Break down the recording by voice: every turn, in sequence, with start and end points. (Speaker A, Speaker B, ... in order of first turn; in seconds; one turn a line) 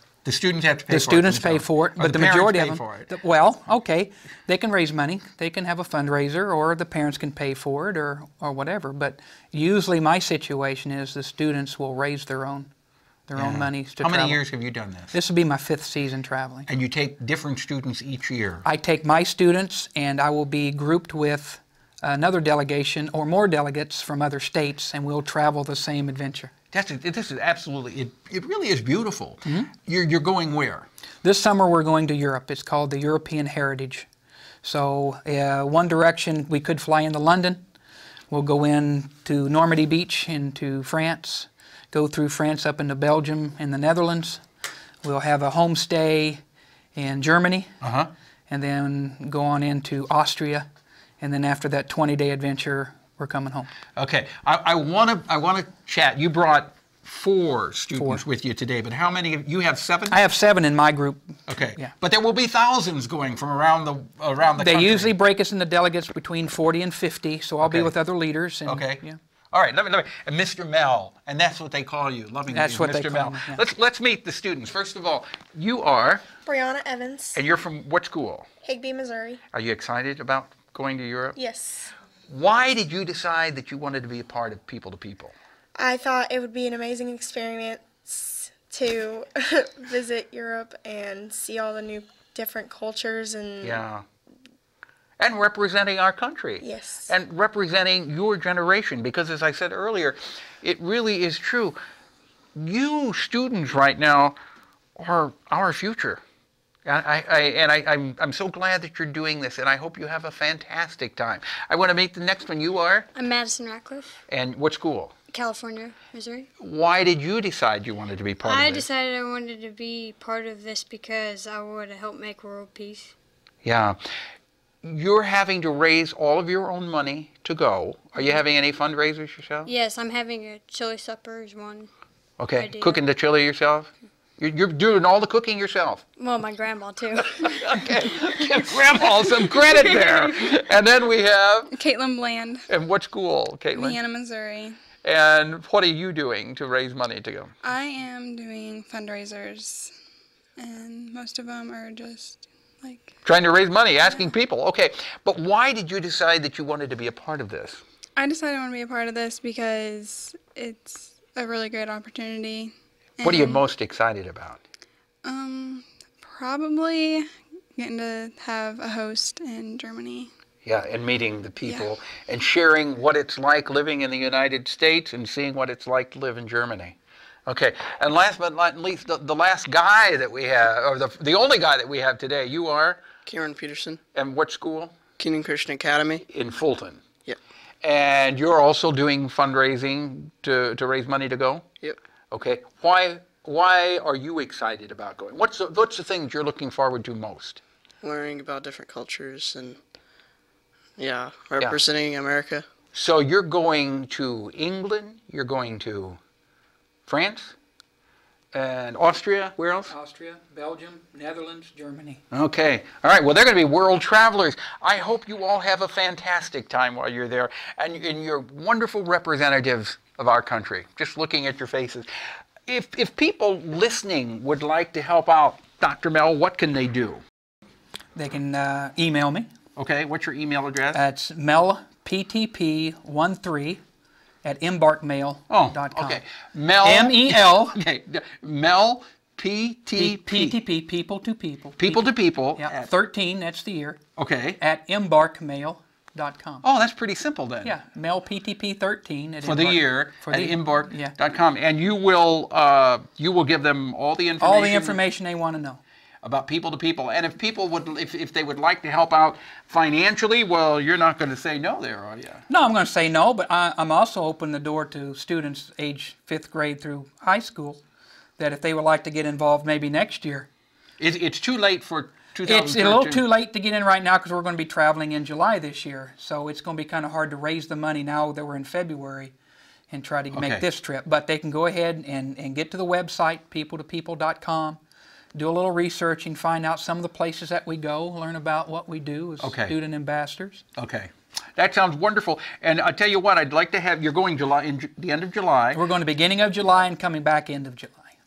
Speaker A: 0.2-3.1
Speaker B: 0.9-12.7
Speaker B: 13.3-14.4
Speaker A: 13.3-15.2
Speaker B: 15.1-16.7
Speaker A: 16.7-18.6
Speaker B: 18.6-26.5
Speaker A: 26.7-30.9
Speaker B: 31.2-34.1
Speaker B: 34.6-37.6
Speaker B: 38.3-44.4
Speaker B: 45.0-46.4
Speaker B: 47.0-47.7
Speaker A: 47.8-48.1
Speaker B: 48.5-50.7
Speaker B: 51.2-53.7
Speaker A: 54.0-60.2
Speaker B: 58.0-58.2
Speaker B: 60.1-61.9
Speaker A: 61.5-65.1
Speaker B: 64.6-69.2
Speaker A: 67.6-67.9
Speaker A: 68.7-76.2
Speaker B: 72.5-73.6
Speaker C: 76.5-77.4
Speaker A: 77.3-78.5
Speaker C: 78.6-79.4
Speaker A: 79.5-81.4
Speaker C: 81.4-81.9
Speaker A: 82.3-85.3
Speaker C: 85.8-93.8
Speaker A: 93.6-94.0
Speaker A: 95.2-101.8
Speaker C: 96.6-97.1
Speaker A: 102.6-104.4
Speaker A: 105.0-106.2
Speaker A: 106.9-113.1
Speaker D: 113.2-114.1
Speaker A: 114.3-115.1
Speaker D: 115.3-116.5
Speaker A: 116.6-118.9
Speaker D: 118.4-123.1
Speaker A: 123.6-124.0
Speaker A: 124.8-129.7
Speaker D: 129.7-131.9
Speaker A: 132.4-136.0
Speaker D: 132.6-133.0
Speaker D: 136.2-138.3
Speaker A: 137.4-141.7
Speaker E: 141.7-142.7
Speaker A: 142.7-144.0
Speaker E: 143.7-144.8
Speaker A: 145.0-147.5
Speaker E: 147.6-149.9
Speaker E: 150.6-153.2
Speaker A: 153.2-157.8
Speaker E: 158.2-163.7
Speaker A: 163.2-164.6
Speaker E: 165.2-167.2
Speaker E: 167.8-170.3
Speaker A: 170.6-177.0
Speaker E: 171.6-171.9
Speaker A: 177.5-183.0
Speaker F: 183.3-184.0
Speaker A: 184.2-185.0
Speaker F: 185.2-186.2
Speaker A: 186.3-187.1
Speaker A: 187.8-191.7
Speaker A: 192.3-197.6
Speaker F: 198.0-199.8
Speaker F: 201.0-202.7
Speaker A: 202.9-206.2
Speaker A: 207.1-207.6
Speaker A: 208.5-209.9
Speaker B: 209.9-212.2
Speaker A: 212.3-222.1
Speaker A: 222.7-227.2
Speaker B: 228.2-229.5
Speaker A: 229.8-231.0
Speaker B: 230.9-233.8
Speaker B: 234.4-236.2
Speaker A: 235.5-240.6
Speaker B: 236.8-237.8
Speaker B: 240.0-244.0
Speaker A: 241.8-242.9
Speaker A: 244.2-244.6
Speaker B: 244.6-246.6
Speaker A: 246.6-247.8
Speaker B: 247.6-251.2
Speaker A: 249.4-255.0
Speaker B: 254.4-255.8
Speaker A: 256.2-262.4
Speaker B: 262.5-267.8
Speaker B: 268.4-270.5
Speaker A: 271.0-273.2
Speaker B: 272.4-279.3
Speaker B: 279.9-284.8
Speaker A: 280.3-280.7
Speaker B: 285.4-290.6
Speaker A: 289.4-289.8
Speaker A: 290.8-295.8
Speaker B: 295.7-298.1